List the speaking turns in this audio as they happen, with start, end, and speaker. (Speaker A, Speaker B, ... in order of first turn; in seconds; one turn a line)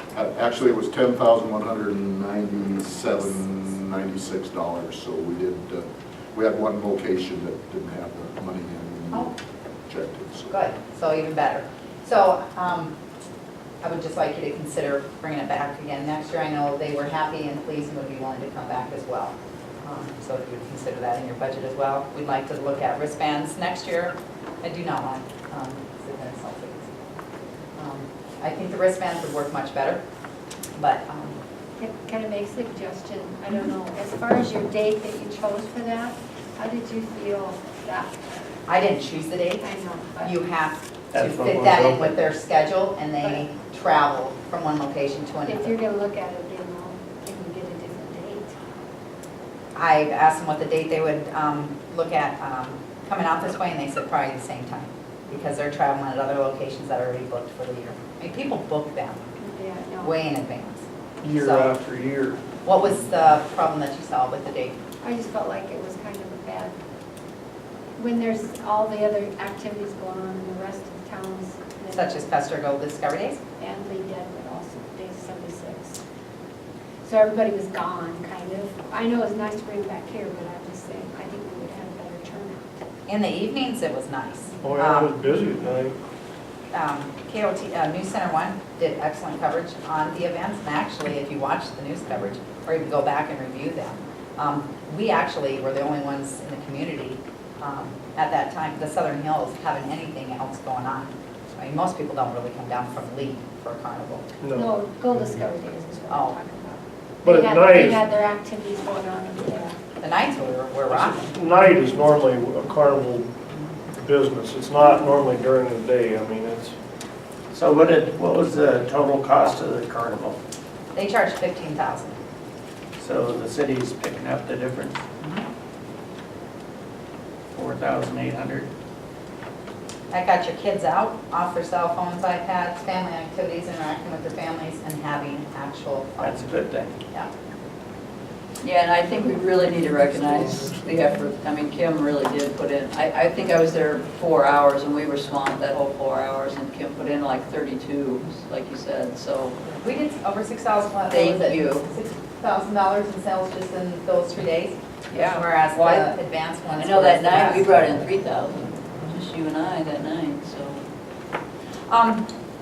Speaker A: 0.1-9.3
Speaker A: 9.9-10.5
Speaker B: 10.5-12.9
Speaker B: 13.8-26.9
Speaker B: 27.8-30.0
Speaker B: 30.8-31.4
Speaker C: 31.8-38.5
Speaker B: 38.6-39.7
Speaker C: 39.6-40.4
Speaker B: 40.2-45.8
Speaker D: 41.1-42.2
Speaker C: 43.2-43.5
Speaker C: 45.4-48.6
Speaker B: 49.7-59.3
Speaker C: 59.4-60.2
Speaker B: 60.0-61.8
Speaker E: 61.5-62.4
Speaker B: 62.6-64.8
Speaker C: 65.0-66.8
Speaker C: 68.0-72.2
Speaker B: 71.9-73.4
Speaker C: 73.6-76.0
Speaker C: 77.0-82.8
Speaker B: 83.1-85.1
Speaker E: 84.6-86.0
Speaker B: 86.7-104.2
Speaker E: 104.4-104.7
Speaker C: 104.5-109.8
Speaker B: 106.1-106.4
Speaker E: 107.2-108.0
Speaker B: 110.0-111.3
Speaker E: 110.9-113.3
Speaker E: 113.9-116.7
Speaker D: 117.5-120.4
Speaker B: 120.9-122.2
Speaker D: 123.0-125.0
Speaker B: 125.2-125.4
Speaker D: 127.5-128.7
Speaker B: 130.1-136.6
Speaker D: 136.2-136.9
Speaker F: 138.6-149.6
Speaker B: 149.7-157.7
Speaker F: 151.1-151.8
Speaker F: 155.1-156.1
Speaker F: 156.8-160.8
Speaker B: 161.9-162.3